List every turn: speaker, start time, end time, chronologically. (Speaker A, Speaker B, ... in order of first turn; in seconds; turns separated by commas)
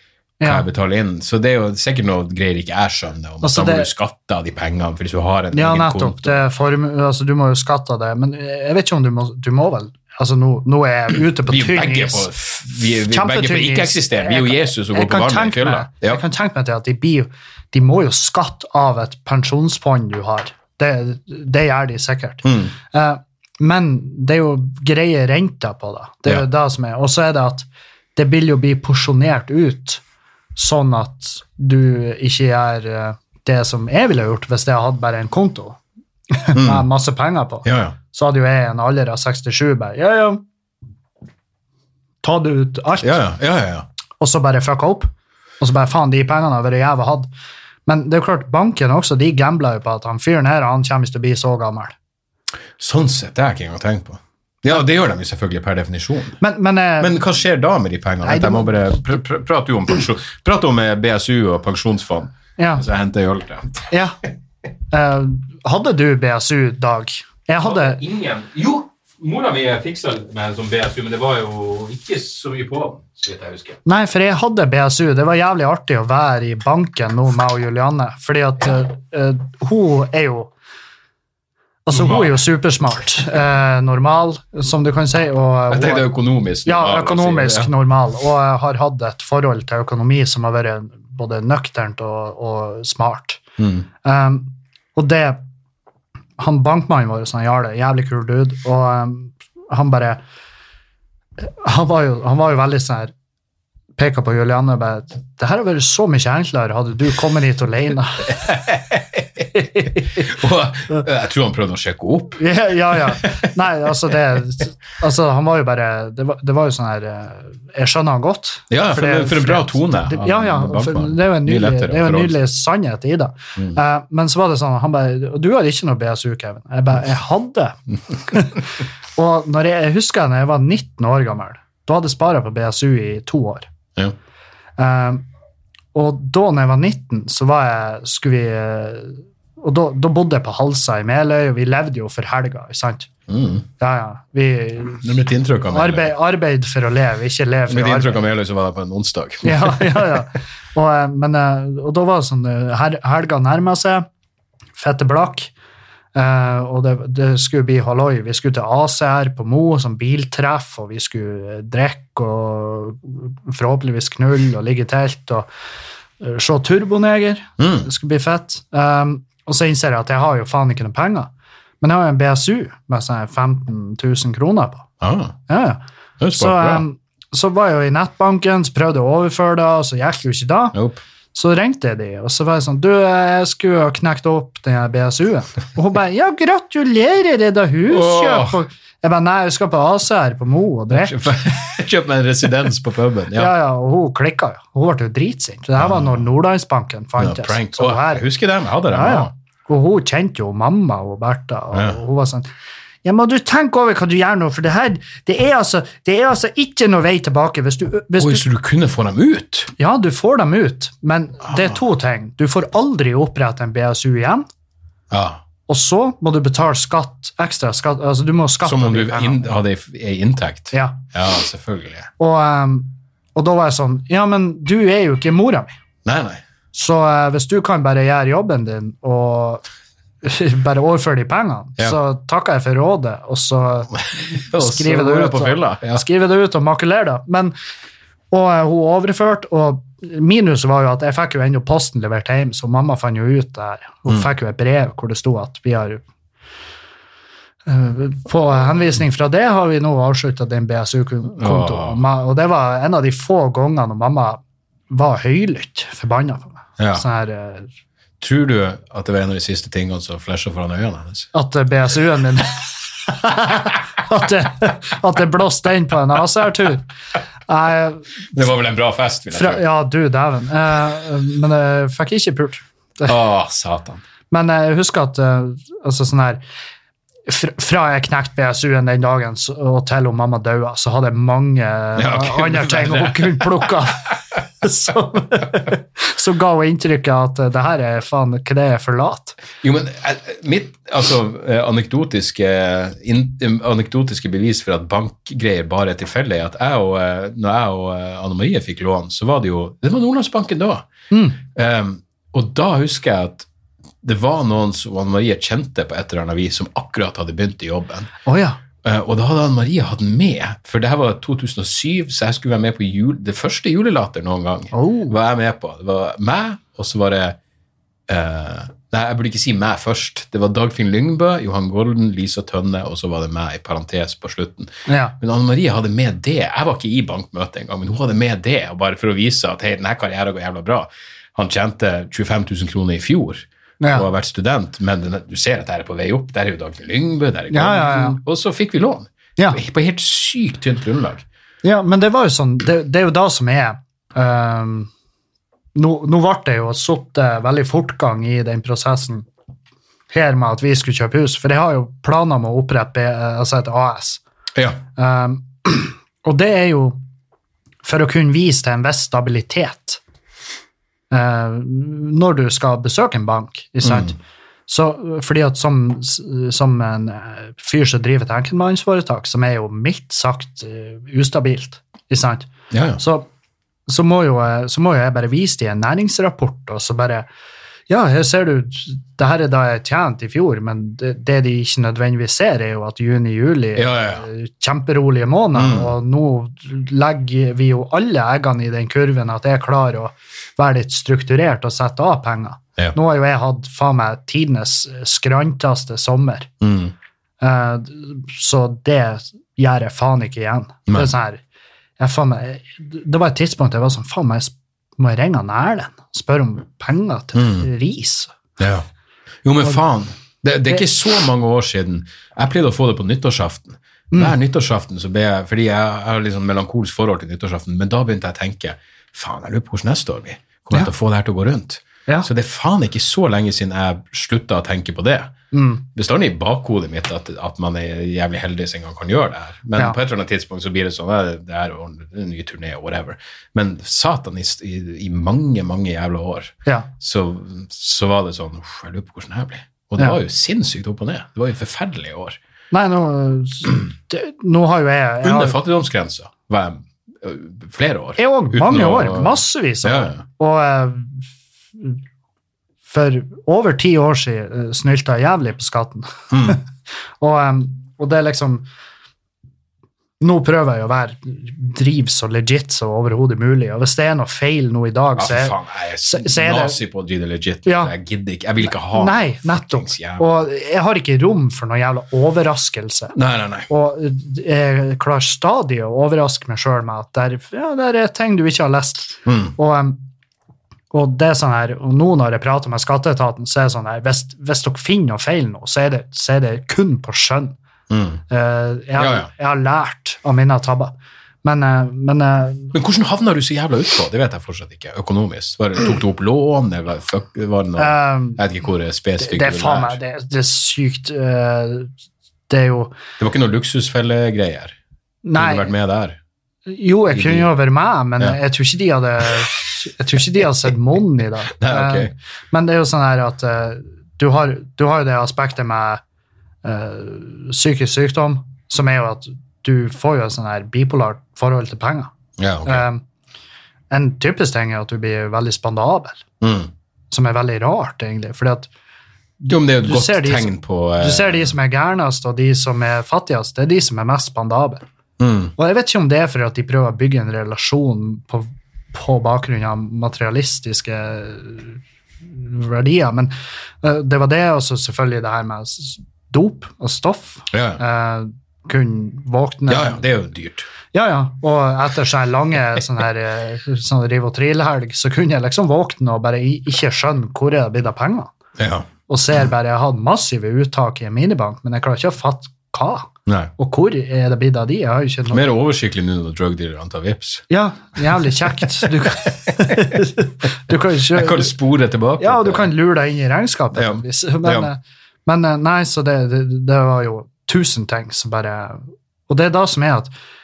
Speaker A: 0.4-0.7, Speaker B: 0.4-6.4, Speaker A: 3.4-3.9, Speaker A: 5.5-12.3, Speaker B: 11.4-16.2, Speaker A: 13.1-30.0, Speaker B: 22.4-22.7, Speaker A: 30.6-35.8, Speaker A: 36.3-40.4, Speaker B: 36.5-36.9, Speaker B: 37.6-38.0, Speaker A: 42.2-43.2, Speaker B: 43.0-43.9, Speaker A: 44.2-47.3, Speaker A: 47.9-51.9, Speaker B: 52.8-56.4, Speaker A: 56.4-57.1, Speaker B: 57.0-63.9, Speaker A: 58.2-58.8, Speaker A: 62.6-62.8, Speaker A: 63.9-64.2, Speaker A: 64.9-68.0, Speaker B: 67.6-73.8, Speaker A: 73.8-80.5, Speaker A: 81.8-86.1, Speaker B: 81.9-82.4, Speaker B: 85.7-87.7, Speaker A: 86.6-93.4, Speaker B: 93.6-93.8, Speaker A: 94.0-95.4, Speaker A: 96.4-100.2, Speaker A: 101.4-103.1, Speaker A: 104.0-108.5, Speaker B: 108.3-113.5, Speaker A: 109.5-110.2, Speaker A: 112.4-133.7, Speaker B: 118.7-122.4, Speaker A: 134.8-135.2, Speaker A: 135.9-143.1, Speaker B: 143.3-143.7, Speaker A: 143.8-145.0, Speaker B: 145.0-146.1, Speaker A: 145.7-148.2, Speaker B: 147.7-150.2, Speaker A: 149.4-154.1, Speaker A: 154.8-155.5, Speaker A: 156.1-165.5, Speaker A: 166.2-171.3, Speaker B: 167.6-167.9, Speaker A: 171.8-174.9, Speaker B: 175.0-175.4, Speaker A: 175.5-175.8, Speaker B: 176.2-176.8, Speaker A: 176.3-180.8, Speaker B: 180.7-181.0, Speaker A: 181.3-191.3, Speaker B: 187.9-188.6, Speaker B: 190.9-193.5, Speaker A: 193.3-198.2, Speaker B: 195.8-196.3, Speaker B: 197.2-199.3, Speaker A: 198.9-202.5, Speaker B: 201.7-202.0, Speaker A: 203.0-208.4, Speaker B: 208.2-209.7, Speaker A: 209.8-214.5, Speaker B: 211.4-211.8, Speaker B: 215.1-215.4, Speaker A: 215.7-219.4, Speaker B: 218.6-222.1, Speaker A: 220.7-221.0, Speaker A: 222.2-225.7, Speaker B: 226.0-226.4, Speaker A: 226.7-229.6, Speaker A: 230.2-237.5, Speaker B: 233.9-236.0, Speaker A: 238.3-246.0, Speaker A: 247.7-257.7, Speaker B: 251.3-252.0, Speaker B: 256.8-257.0, Speaker B: 258.2-261.3, Speaker A: 261.3-266.8, Speaker A: 267.5-268.1, Speaker B: 268.3-269.6, Speaker A: 269.3-273.1, Speaker B: 273.0-274.0, Speaker A: 274.3-276.4, Speaker A: 277.3-284.1, Speaker B: 281.9-283.8, Speaker A: 284.6-289.4, Speaker B: 289.6-300.9, Speaker A: 301.1-301.4, Speaker B: 301.4-303.5, Speaker B: 304.0-308.1, Speaker A: 308.2-308.6, Speaker B: 308.8-317.4, Speaker A: 314.7-315.1, Speaker B: 318.1-341.2, Speaker A: 324.9-325.1, Speaker A: 333.8-334.1, Speaker A: 337.5-338.2, Speaker A: 341.6-344.9, Speaker A: 345.7-349.2, Speaker A: 350.1-354.2, Speaker B: 354.5-354.8, Speaker A: 354.9-357.0, Speaker A: 357.8-360.0, Speaker A: 361.1-364.2, Speaker B: 363.8-364.1, Speaker A: 364.7-373.3, Speaker B: 372.7-373.0, Speaker A: 373.9-377.3, Speaker A: 377.9-396.5, Speaker B: 383.7-384.2, Speaker B: 385.5-385.9, Speaker B: 396.6-396.9, Speaker A: 397.4-401.4, Speaker A: 402.0-408.3, Speaker B: 407.3-407.7, Speaker B: 408.6-408.9, Speaker B: 409.4-425.3, Speaker A: 425.5-425.8, Speaker B: 425.9-442.4, Speaker A: 442.7-445.6, Speaker B: 445.2-450.2, Speaker A: 448.2-451.2, Speaker A: 452.9-456.6, Speaker B: 456.3-456.6, Speaker A: 457.2-458.6, Speaker A: 460.2-466.8, Speaker B: 465.1-470.3, Speaker A: 467.6-467.9, Speaker A: 468.6-473.2, Speaker B: 473.1-473.7, Speaker A: 473.7-480.0, Speaker B: 479.2-479.5, Speaker A: 480.9-487.6, Speaker B: 487.9-488.2, Speaker A: 488.3-492.7, Speaker B: 489.0-489.3, Speaker B: 492.7-500.0, Speaker A: 497.8-498.4, Speaker A: 499.2-501.9, Speaker A: 502.5-502.9, Speaker B: 503.2-504.8, Speaker A: 505.2-505.7, Speaker B: 505.4-506.2, Speaker A: 506.6-516.0, Speaker B: 507.1-507.5, Speaker B: 511.6-512.1, Speaker A: 516.6-522.1, Speaker B: 522.4-522.9, Speaker A: 522.6-523.0, Speaker A: 523.9-526.2, Speaker B: 526.4-526.7, Speaker A: 527.1-528.7, Speaker A: 529.4-534.8, Speaker B: 529.5-531.5, Speaker B: 535.2-535.5, Speaker A: 535.6-550.0, Speaker B: 547.5-547.8, Speaker B: 549.7-550.7, Speaker A: 550.9-558.3, Speaker B: 558.6-558.9, Speaker A: 559.1-565.4, Speaker B: 563.3-563.5, Speaker B: 565.3-567.5, Speaker A: 567.5-571.5, Speaker B: 568.1-568.9, Speaker B: 569.6-570.0, Speaker B: 571.1-572.7, Speaker A: 572.2-580.1, Speaker B: 573.7-574.7